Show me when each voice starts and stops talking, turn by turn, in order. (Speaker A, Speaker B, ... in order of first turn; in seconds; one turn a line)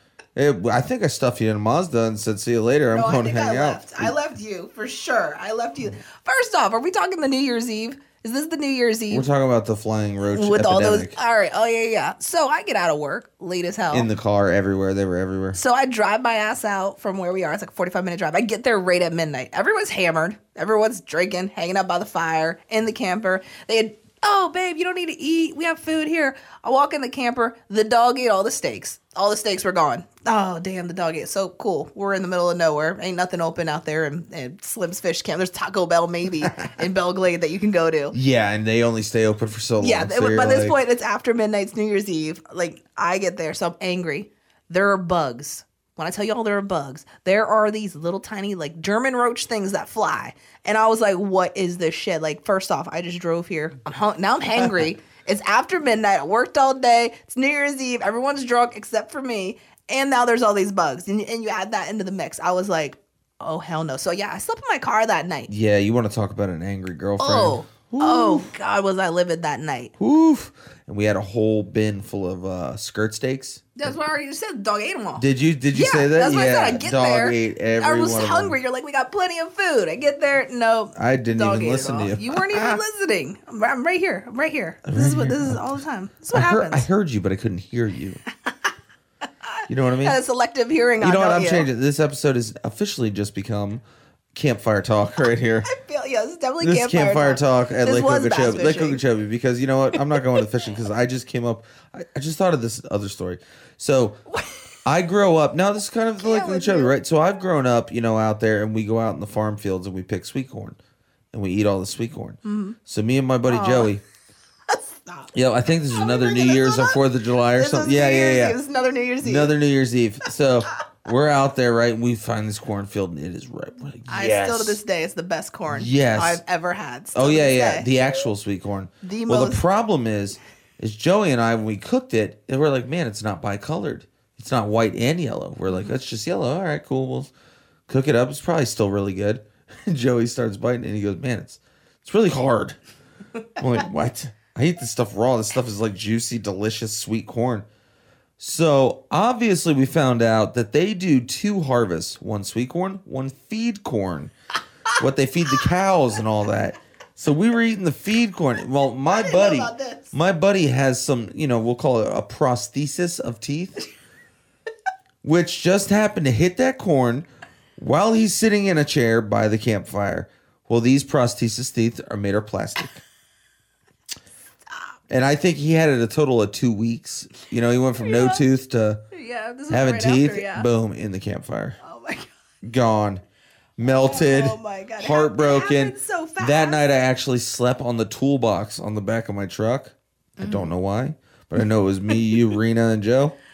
Speaker A: 0.4-4.1
Speaker B: 2.9-9.3
Speaker A: 9.1-11.2
Speaker B: 10.3-14.1
Speaker A: 13.9-15.6
Speaker B: 15.5-38.1
Speaker A: 38.1-40.8
Speaker B: 39.8-65.5
Speaker A: 65.5-68.5
Speaker B: 67.2-69.9
Speaker A: 70.0-73.9
Speaker B: 73.8-86.9
Speaker A: 75.2-78.6
Speaker A: 81.0-82.8
Speaker A: 84.9-85.8
Speaker A: 86.3-88.2
Speaker A: 89.7-90.2
Speaker B: 90.0-91.7
Speaker A: 91.0-93.8
Speaker A: 94.3-95.7
Speaker B: 95.7-99.0
Speaker A: 96.6-104.2
Speaker A: 104.8-110.8
Speaker B: 106.2-106.9
Speaker A: 111.3-114.0
Speaker B: 112.5-112.8
Speaker B: 113.5-113.9
Speaker B: 114.7-115.3
Speaker A: 115.3-118.6
Speaker B: 115.9-117.0
Speaker B: 117.6-119.5
Speaker A: 119.2-124.8
Speaker B: 124.1-127.9
Speaker A: 125.7-126.4
Speaker A: 127.2-137.3
Speaker B: 129.0-129.6
Speaker A: 137.9-142.8
Speaker A: 143.6-147.7
Speaker A: 148.4-154.3
Speaker A: 155.0-163.8
Speaker B: 159.1-160.1
Speaker A: 165.2-173.0
Speaker A: 175.1-179.0
Speaker B: 178.0-178.4
Speaker B: 179.1-180.7
Speaker A: 179.7-181.8
Speaker B: 181.8-182.3
Speaker A: 182.6-183.2
Speaker A: 183.8-193.3
Speaker B: 183.8-186.8
Speaker B: 190.4-190.7